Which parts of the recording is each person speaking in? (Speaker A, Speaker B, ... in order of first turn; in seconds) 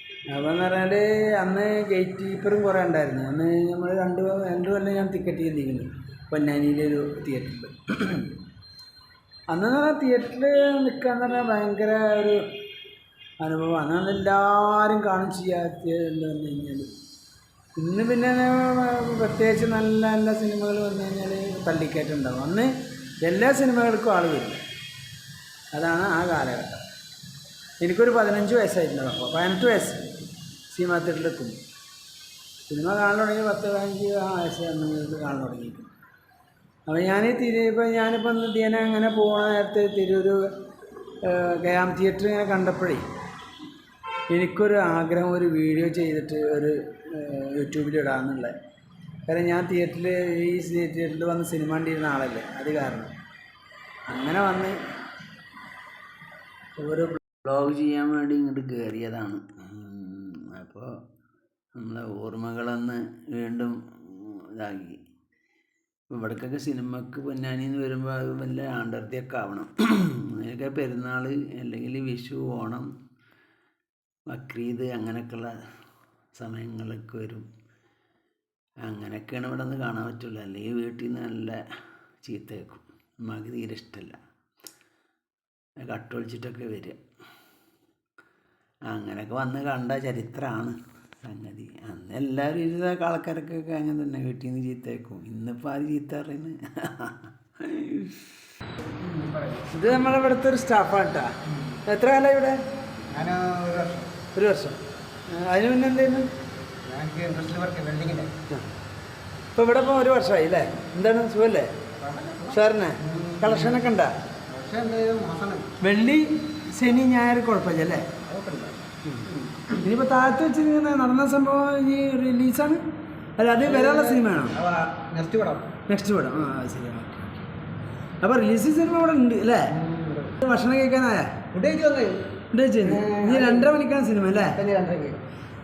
Speaker A: 0.3-8.3, 9.5-12.5, 13.4-16.9, 17.8-24.6, 25.7-26.8, 27.8-30.1, 30.7-31.6, 32.7-35.9, 36.9-40.5, 41.2-43.0, 44.3-48.5, 49.3-53.1, 54.1-54.8, 56.8-57.2, 97.7-98.2, 99.7-101.3, 101.8-102.6, 104.3-104.8, 105.3-106.3, 109.6-111.7, 112.5-114.1, 115.8-118.1, 119.1-122.8, 123.4-124.6, 125.9-127.4, 128.2-129.8, 130.4-131.4, 132.5-134.6
Speaker B: 57.4-61.0, 61.8-65.0, 66.1-72.9, 74.3-75.6, 76.4-77.5, 78.8-81.6, 82.2-84.2, 85.8-87.0, 88.9-97.1
Speaker C: 99.0-99.7, 103.1-104.1, 106.8-108.3, 112.0-113.8, 114.5-115.7, 118.2-119.8, 123.7-125.7, 129.8-130.3, 131.5-132.2, 132.8-133.7, 134.5-135.2